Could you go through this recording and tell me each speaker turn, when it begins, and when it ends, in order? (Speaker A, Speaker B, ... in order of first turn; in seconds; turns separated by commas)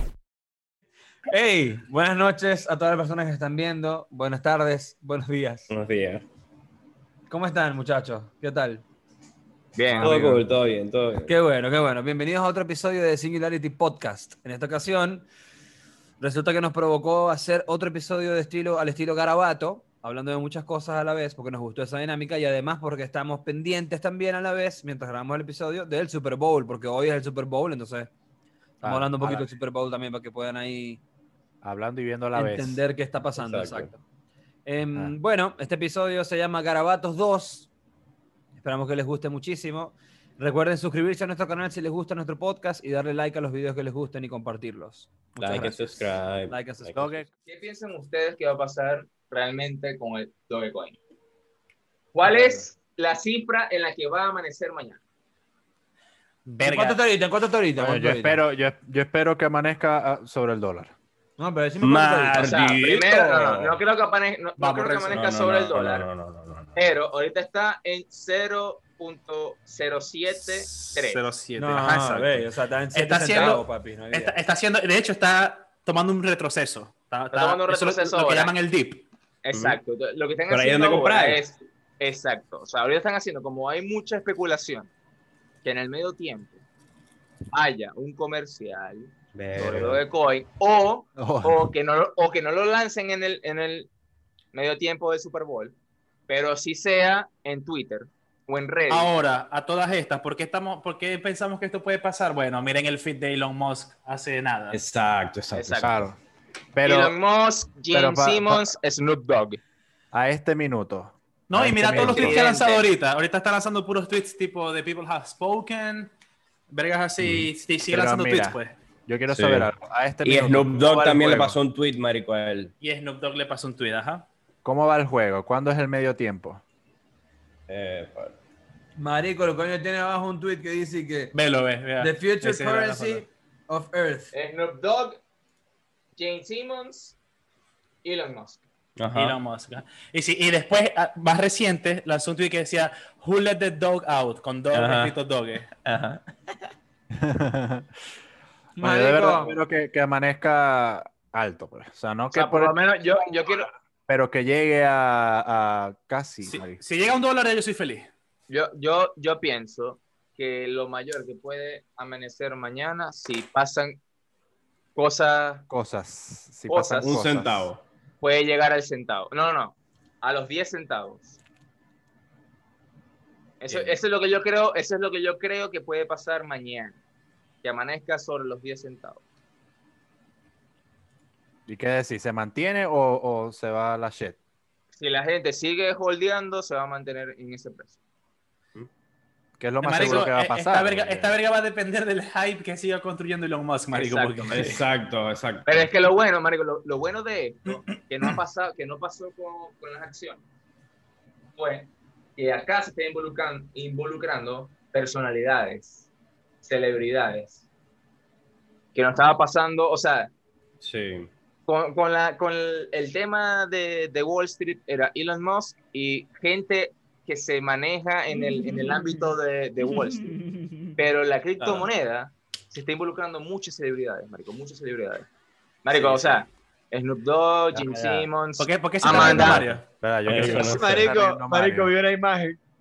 Speaker A: 1.3-5.7, Speaker B: 5.7-6.2, Speaker A: 7.3-8.8, Speaker C: 9.8-10.5, Speaker B: 10.0-11.4, Speaker A: 11.2-15.3, Speaker A: 16.2-28.1, Speaker D: 28.8-29.5, Speaker A: 28.8-31.0, Speaker D: 31.6-32.8, Speaker A: 32.3-34.0, Speaker B: 33.4-33.9, Speaker A: 34.7-37.7, Speaker A: 38.6-47.3, Speaker B: 45.4-47.1, Speaker D: 47.0-47.3, Speaker C: 47.5-51.0, Speaker C: 52.1-55.0, Speaker D: 52.2-52.5, Speaker E: 56.5-57.0, Speaker A: 56.6-58.4, Speaker D: 57.8-60.9, Speaker A: 61.4-63.6, Speaker E: 61.8-63.8, Speaker B: 61.8-62.4, Speaker C: 62.4-66.1, Speaker E: 64.6-65.3, Speaker B: 65.1-66.8, Speaker C: 66.8-71.2, Speaker E: 70.4-79.0, Speaker A: 71.6-74.4, Speaker C: 77.3-78.5, Speaker C: 79.4-84.9, Speaker B: 79.5-79.8, Speaker B: 80.5-81.4, Speaker C: 85.6-86.6, Speaker C: 87.5-93.9, Speaker B: 89.3-90.0, Speaker D: 91.2-91.7, Speaker C: 94.5-95.8, Speaker C: 96.3-99.2, Speaker E: 98.9-104.8, Speaker B: 104.7-106.1, Speaker C: 105.5-105.9, Speaker D: 105.8-106.2, Speaker D: 106.8-107.2, Speaker C: 106.8-109.6, Speaker D: 107.9-108.8, Speaker D: 110.1-112.4, Speaker E: 111.5-116.1, Speaker C: 112.0-112.9, Speaker E: 116.7-118.7, Speaker B: 117.2-117.5, Speaker D: 117.9-121.6, Speaker B: 119.3-119.7, Speaker B: 120.2-122.7, Speaker E: 122.8-124.3, Speaker D: 124.6-126.6, Speaker B: 127.7-128.4, Speaker A: 129.0-131.3, Speaker E: 131.3-133.2, Speaker A: 132.0-134.3, Speaker C: 134.3-135.2, Speaker C: 136.2-137.2, Speaker C: 138.0-138.6, Speaker B: 139.0-139.4, Speaker E: 139.2-145.8, Speaker B: 144.7-145.2, Speaker B: 145.8-146.2, Speaker D: 147.2-147.9, Speaker A: 148.8-149.6, Speaker D: 148.8-152.8, Speaker C: 152.3-153.7, Speaker D: 154.1-156.8, Speaker E: 156.4-158.1, Speaker C: 158.5-164.0, Speaker C: 164.9-165.7, Speaker D: 165.7-167.7, Speaker C: 166.7-167.2, Speaker B: 167.0-167.8, Speaker C: 168.2-171.4, Speaker C: 173.6-177.0, Speaker C: 177.6-179.2, Speaker D: 181.7-184.4, Speaker C: 184.9-187.9, Speaker D: 189.6-191.4, Speaker E: 189.8-194.8, Speaker C: 193.9-194.7, Speaker B: 194.5-195.9, Speaker C: 195.7-200.4, Speaker C: 201.6-206.1, Speaker C: 206.6-207.6, Speaker C: 208.9-210.3, Speaker B: 210.8-211.3, Speaker C: 211.7-220.4, Speaker A: 218.3-219.3, Speaker A: 220.0-221.0, Speaker C: 221.0-225.3, Speaker E: 221.6-221.9, Speaker C: 225.8-229.6, Speaker E: 225.9-226.4, Speaker D: 227.7-228.3, Speaker E: 228.6-229.8, Speaker D: 229.1-231.9, Speaker B: 230.2-231.0, Speaker A: 230.4-232.6